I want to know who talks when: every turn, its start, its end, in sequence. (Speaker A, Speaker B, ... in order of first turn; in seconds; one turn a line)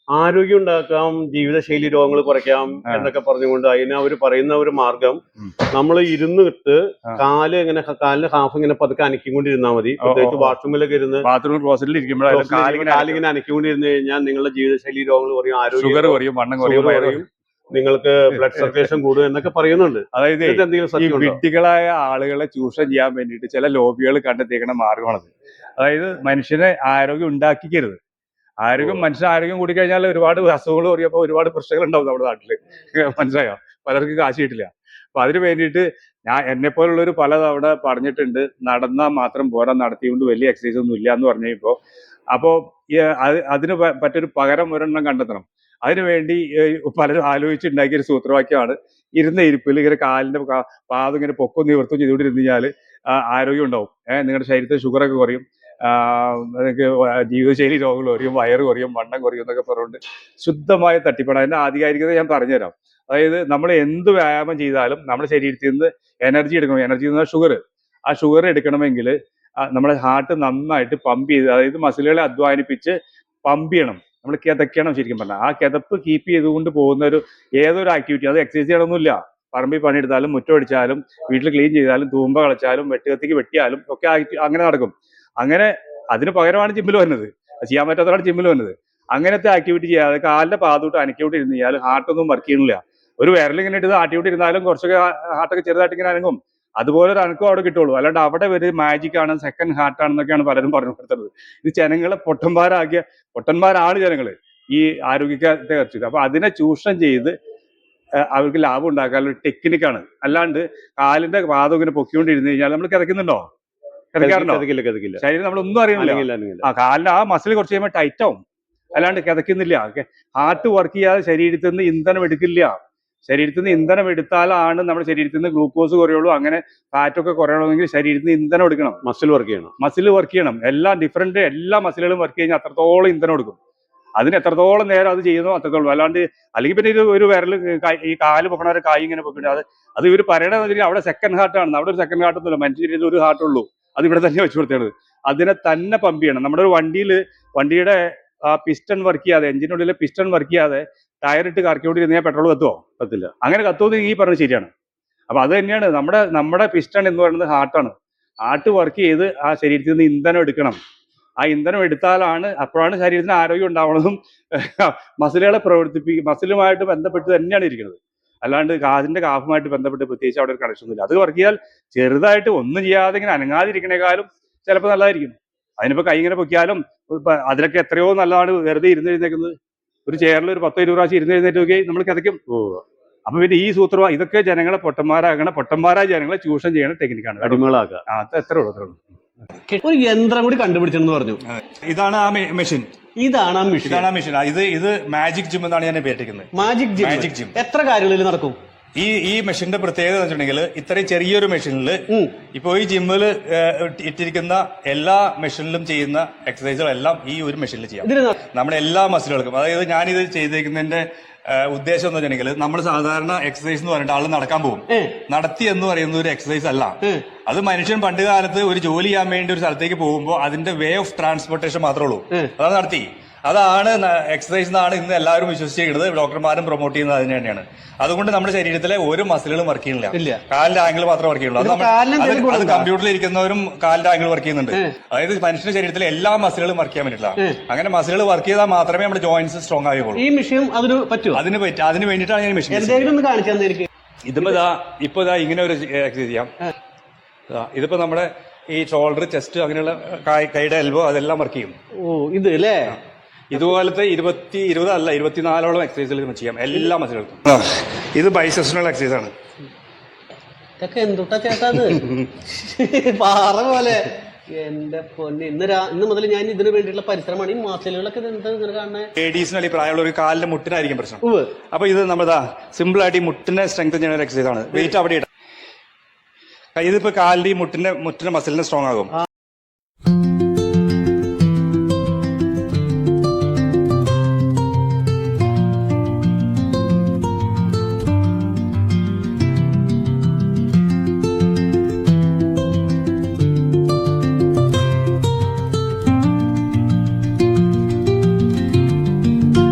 Speaker A: 0.1-11.3
Speaker B: 10.0-10.6
Speaker B: 11.2-13.2
Speaker A: 12.3-21.4
Speaker B: 15.8-17.2
Speaker B: 18.3-18.9
Speaker B: 20.1-28.0
Speaker B: 28.6-41.8
Speaker B: 42.3-107.3
Speaker B: 108.2-113.5
Speaker B: 114.1-114.7
Speaker A: 114.2-115.2
Speaker B: 115.2-118.4
Speaker A: 116.0-116.7
Speaker B: 119.0-129.0
Speaker A: 129.0-129.7
Speaker B: 129.8-133.6
Speaker B: 134.2-152.8
Speaker A: 153.0-153.3
Speaker B: 153.4-154.7
Speaker B: 155.3-160.8
Speaker B: 161.4-179.6
Speaker B: 180.1-182.4
Speaker A: 182.5-182.8
Speaker B: 183.3-189.0
Speaker A: 187.4-188.0
Speaker C: 189.7-191.4
Speaker B: 191.5-192.9
Speaker C: 193.2-194.1
Speaker B: 193.8-197.6
Speaker C: 196.5-198.6
Speaker B: 199.0-240.2
Speaker C: 208.0-208.4
Speaker C: 214.9-215.2
Speaker C: 230.1-230.4
Speaker C: 231.6-232.9
Speaker C: 240.2-241.4
Speaker B: 241.3-243.1
Speaker C: 242.7-243.9
Speaker B: 244.3-246.5
Speaker B: 247.5-251.7
Speaker C: 252.0-253.0
Speaker B: 253.5-259.3
Speaker C: 260.8-269.1
Speaker B: 269.2-275.3
Speaker C: 271.2-271.5
Speaker B: 276.8-279.1